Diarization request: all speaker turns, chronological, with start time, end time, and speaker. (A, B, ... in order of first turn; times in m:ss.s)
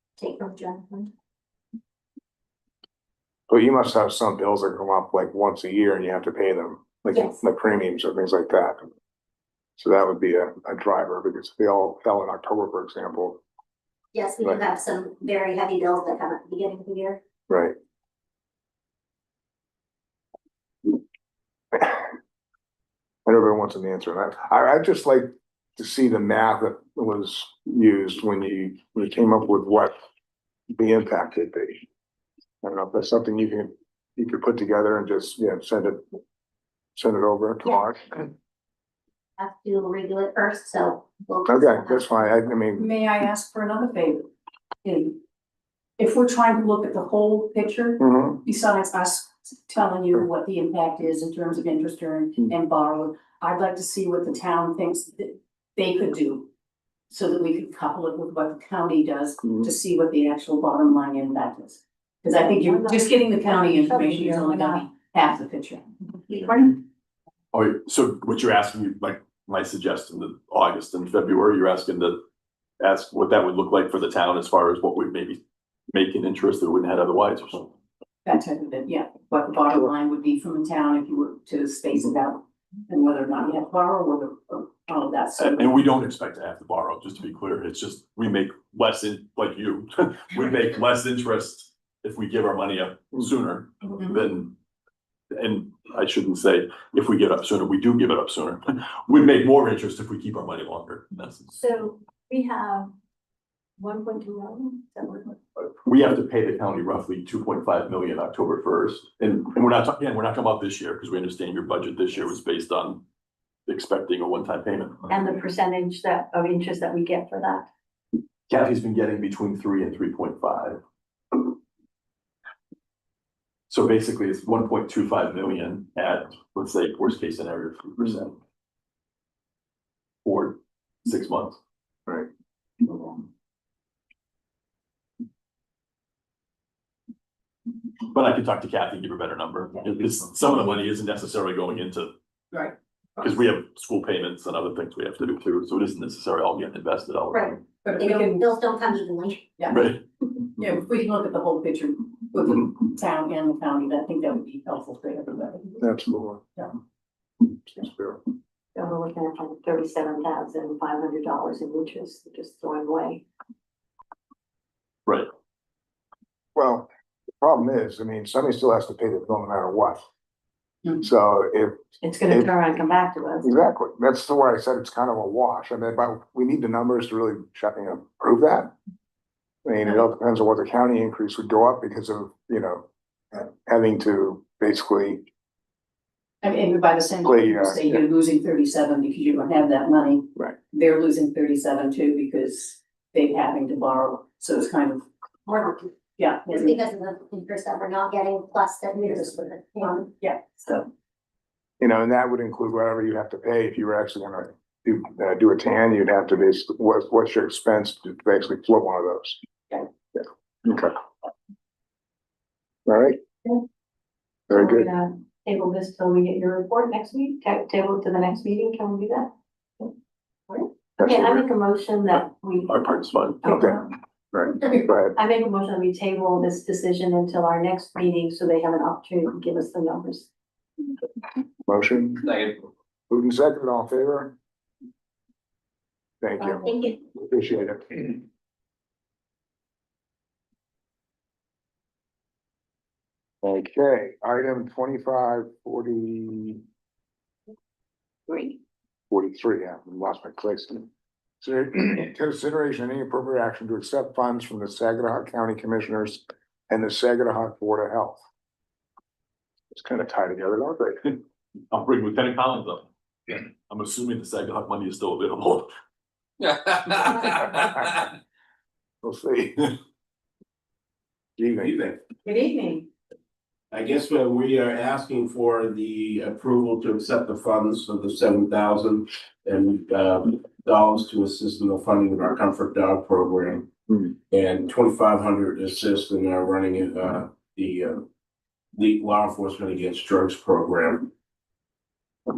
0:00.2-0:01.1 A
0:03.5-0:08.8 B
0:07.1-0:07.4 A
0:09.8-0:13.4 B
0:14.1-0:17.2 A
0:17.5-0:17.8 B
0:21.7-0:22.0 B
0:23.3-0:29.9 B
0:30.7-0:31.8 B
0:32.6-0:36.0 B
0:37.0-0:38.3 B
0:39.4-0:42.1 A
0:41.5-0:42.9 B
0:42.8-0:44.3 C
0:44.8-0:45.2 C
0:46.0-0:56.5 C
0:48.0-0:48.4 B
0:57.1-1:05.9 C
1:02.3-1:04.9 D
1:06.3-1:06.7 D
1:07.5-1:12.2 E
1:12.8-1:17.7 E
1:18.2-1:25.8 C
1:25.4-1:34.6 E
1:35.3-1:41.6 E
1:41.6-1:42.9 D
1:43.8-1:45.4 D
1:45.8-1:53.0 E
1:53.7-1:55.1 E
1:55.1-1:57.7 D
1:58.5-2:00.8 E
2:03.7-2:08.4 E
2:10.2-2:11.6 E
2:18.1-2:22.1 E
2:22.5-2:23.3 C
2:23.2-2:27.6 E
2:27.3-2:29.5 A
2:27.8-2:28.5 C
2:29.6-2:29.9 C
2:29.7-2:30.0 E
2:30.6-2:35.8 C
2:35.8-2:36.4 B
2:37.6-2:38.2 B
2:38.8-2:43.2 D
2:46.6-2:46.9 B
2:47.4-2:50.1 B
2:51.0-2:51.8 B
2:52.0-2:53.5 D
2:52.3-2:52.7 B
2:53.4-2:58.7 B
2:59.6-3:05.2 B
3:06.4-3:15.0 C
3:07.2-3:08.0 B
3:15.5-3:15.9 A
3:16.2-3:16.8 C
3:16.5-3:20.1 A
3:19.0-3:20.8 C
3:21.8-3:29.4 B
3:30.2-3:30.9 B
3:32.9-3:33.2 B
3:34.5-3:34.9 B
3:34.5-3:39.9 D
3:40.5-3:42.8 D
3:41.0-3:41.4 B
3:42.7-3:43.5 E
3:43.4-3:43.8 D
3:43.5-3:45.2 B
3:44.7-3:50.3 D
3:51.7-3:52.5 B
3:53.1-3:54.4 B
3:56.2-3:58.2 B
3:56.4-3:57.0 A
4:03.4-4:06.6 B
4:08.3-4:08.6 D
4:09.1-4:10.9 B
4:11.4-4:18.2 B
4:19.7-4:21.2 B
4:21.7-4:25.7 E
4:26.9-4:28.0 B
4:29.0-4:29.7 B
4:31.4-4:31.7 B
4:31.6-4:32.0 F
4:32.2-4:32.8 D
4:33.7-4:48.0 F
4:48.8-4:51.1 F